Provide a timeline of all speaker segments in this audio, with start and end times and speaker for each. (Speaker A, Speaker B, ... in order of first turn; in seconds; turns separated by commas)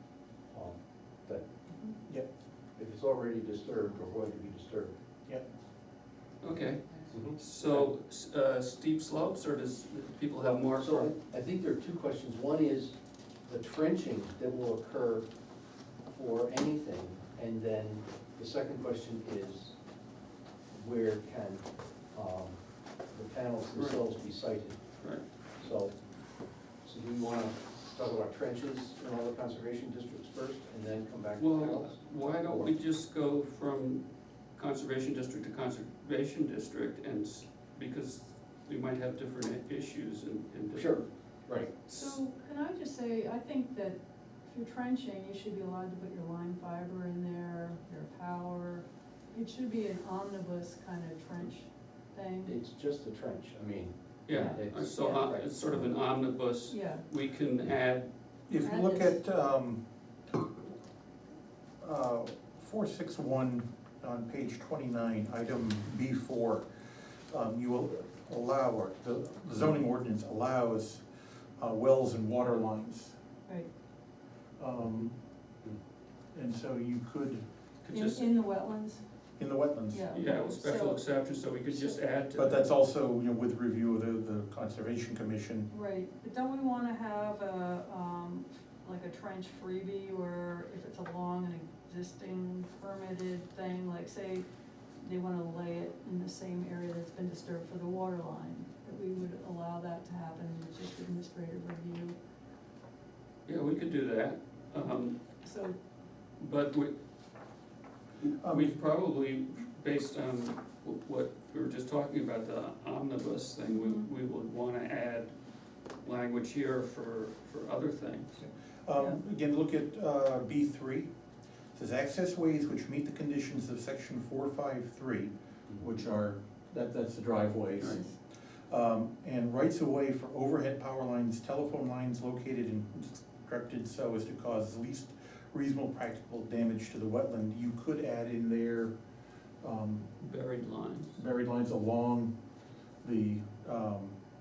Speaker A: 0.5-1.5, Speaker A: 2.8-4.9, Speaker B: 6.4-11.1, Speaker A: 7.1-7.9, Speaker A: 10.4-15.3, Speaker A: 16.1-19.8, Speaker A: 20.7-24.8, Speaker A: 25.6-26.0, Speaker A: 26.8-32.7, Speaker B: 31.4-41.1, Speaker A: 40.7-41.7, Speaker B: 41.7-42.2, Speaker C: 41.9-52.5, Speaker A: 52.5-55.9, Speaker B: 54.3-58.1, Speaker C: 54.3-55.3, Speaker C: 56.7-57.0, Speaker D: 58.5-59.8, Speaker C: 58.6-59.2, Speaker D: 61.8-71.0, Speaker D: 71.6-73.2, Speaker D: 74.6-75.2, Speaker D: 76.3-77.4, Speaker B: 77.8-78.3, Speaker C: 77.9-79.0, Speaker D: 79.4-80.0, Speaker C: 79.9-81.0, Speaker B: 80.1-82.6, Speaker C: 81.7-82.0, Speaker D: 82.3-85.7, Speaker C: 85.7-94.5, Speaker C: 95.0-102.2, Speaker B: 103.5-105.2, Speaker C: 105.4-105.8, Speaker B: 106.4-106.9, Speaker B: 108.2-115.3, Speaker D: 108.4-108.8, Speaker C: 113.7-114.1, Speaker B: 116.0-118.4, Speaker D: 118.4-121.1, Speaker D: 121.8-128.0, Speaker D: 128.7-138.9, Speaker D: 139.6-140.1, Speaker B: 140.2-141.2, Speaker D: 141.2-142.3, Speaker D: 143.0-144.2